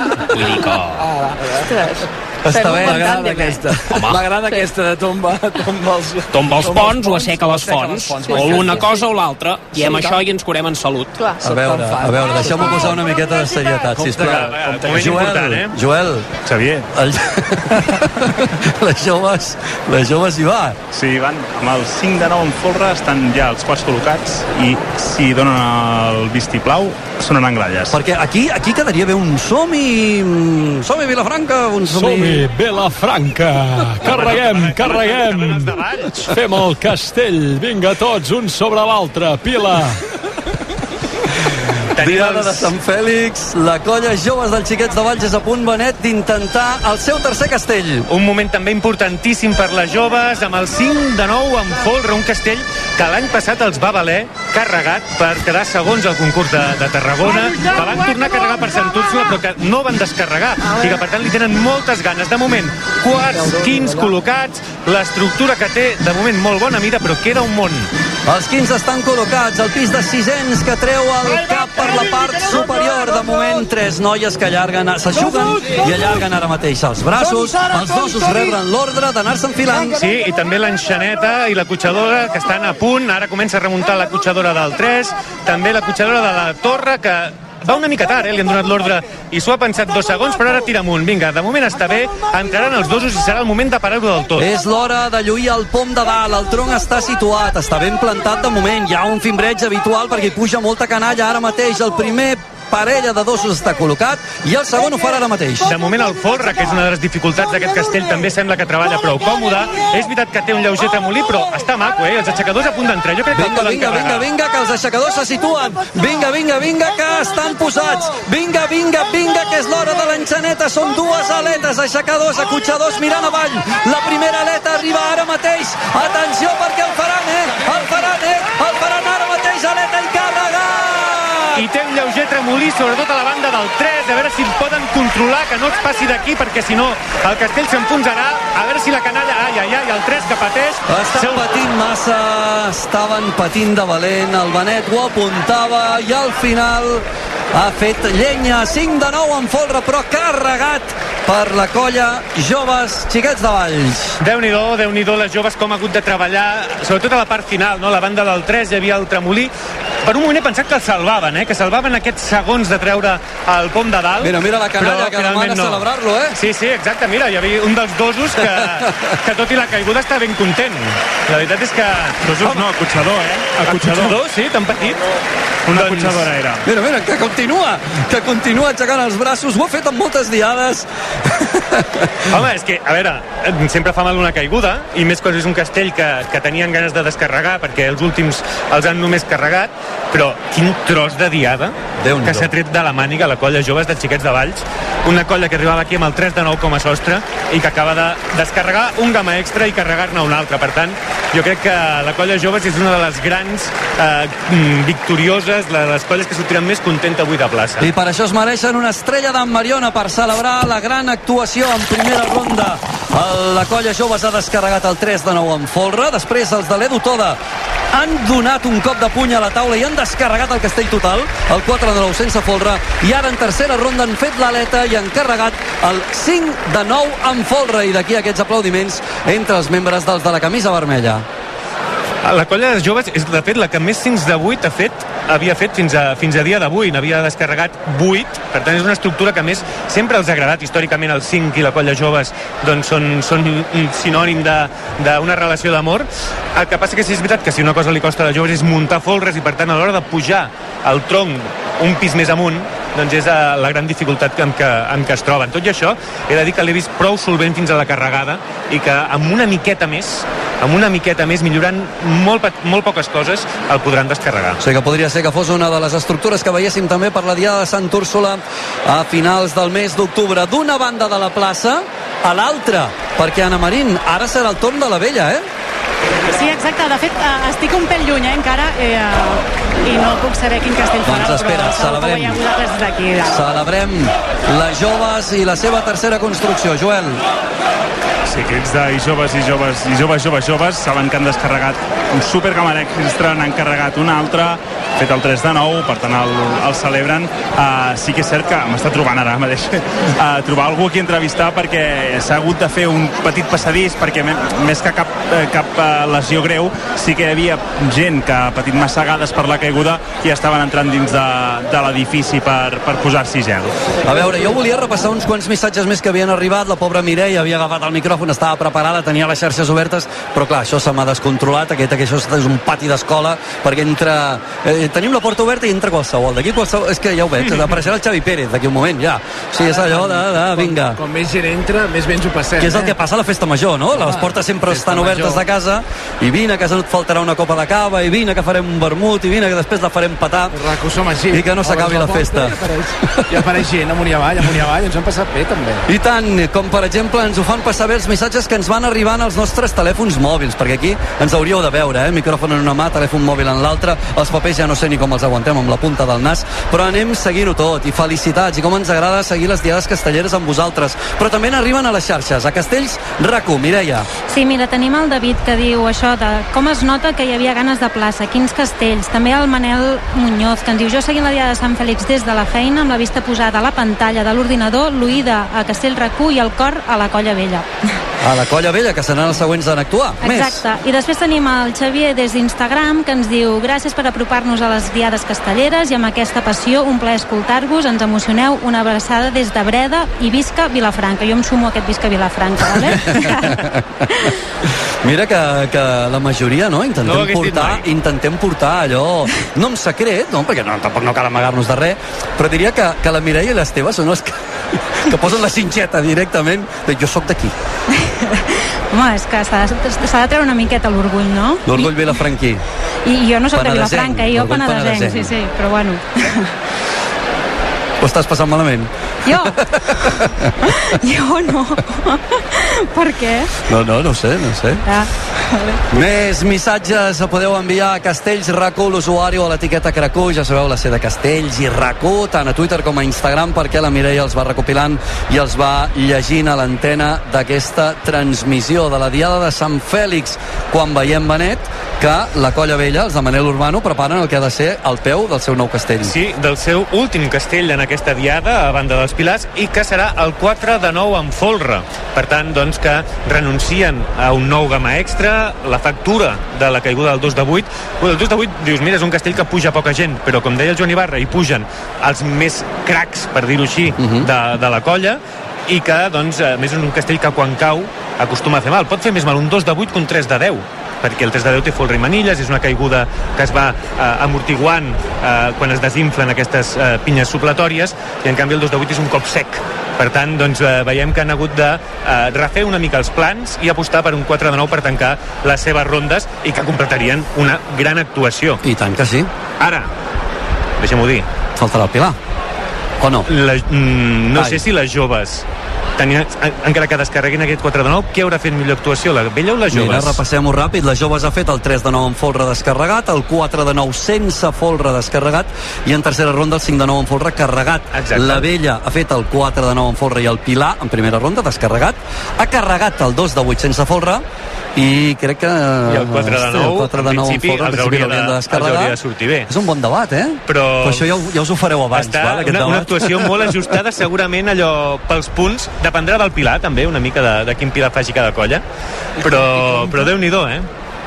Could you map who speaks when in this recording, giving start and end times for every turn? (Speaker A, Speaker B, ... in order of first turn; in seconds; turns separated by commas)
Speaker A: 0.3-1.1, Speaker B: 1.0-1.7, Speaker C: 1.6-3.6, Speaker D: 2.5-3.4, Speaker B: 2.5-9.0, Speaker A: 3.9-4.5, Speaker A: 6.3-11.2, Speaker B: 9.8-10.2, Speaker D: 11.4-16.3, Speaker B: 11.5-15.1, Speaker C: 13.1-13.8, Speaker E: 14.1-15.7, Speaker F: 16.5-16.8, Speaker D: 16.9-20.8, Speaker F: 20.9-28.0, Speaker D: 27.9-32.5, Speaker G: 31.9-40.0, Speaker E: 34.0-36.4, Speaker E: 42.0-42.8, Speaker D: 42.0-48.1, Speaker E: 48.1-67.9, Speaker B: 63.4-64.0, Speaker D: 68.3-80.0, Speaker E: 79.8-94.5, Speaker D: 94.4-105.7, Speaker E: 105.6-114.3, Speaker D: 113.3-131.6, Speaker E: 131.6-141.7, Speaker D: 140.9-154.2, Speaker E: 154.2-159.5, Speaker E: 160.0-172.7, Speaker D: 164.2-166.4, Speaker D: 168.8-169.1, Speaker F: 172.2-174.2, Speaker E: 173.6-175.0, Speaker F: 175.7-176.6, Speaker E: 175.7-176.3, Speaker D: 176.6-182.1, Speaker E: 182.3-207.9, Speaker D: 192.0-192.5, Speaker D: 207.8-217.4, Speaker D: 217.9-231.2, Speaker E: 232.2-264.6, Speaker D: 264.6-275.4, Speaker H: 276.3-283.4, Speaker D: 281.0-282.4, Speaker D: 283.2-287.2, Speaker F: 288.3-313.7, Speaker D: 314.1-331.0, Speaker B: 329.6-332.9, Speaker D: 332.6-340.6, Speaker B: 333.9-335.4, Speaker B: 340.5-345.8, Speaker D: 341.3-343.3, Speaker D: 345.9-364.1, Speaker I: 364.3-377.7, Speaker D: 378.2-380.6, Speaker I: 380.2-393.6, Speaker D: 393.1-393.8, Speaker D: 395.0-404.3, Speaker E: 397.0-397.9, Speaker D: 404.9-407.5, Speaker I: 408.0-412.1, Speaker D: 411.7-412.6, Speaker I: 413.1-416.5, Speaker D: 413.5-415.3, Speaker D: 418.0-420.3, Speaker I: 419.3-419.6, Speaker I: 420.9-423.5, Speaker D: 423.7-424.8, Speaker I: 424.9-425.8, Speaker D: 425.9-446.1, Speaker E: 446.0-488.6, Speaker D: 464.0-464.3, Speaker D: 488.6-489.3, Speaker E: 489.6-489.9, Speaker E: 490.8-491.3, Speaker D: 491.6-492.2, Speaker D: 493.0-493.3, Speaker E: 493.3-495.5, Speaker D: 494.4-494.6, Speaker E: 496.0-500.2, Speaker D: 499.7-514.2, Speaker E: 507.9-508.5, Speaker D: 514.8-519.0, Speaker E: 515.9-519.5, Speaker D: 519.5-523.3, Speaker E: 520.5-521.1, Speaker E: 521.9-528.6, Speaker B: 529.2-530.0, Speaker E: 529.2-530.7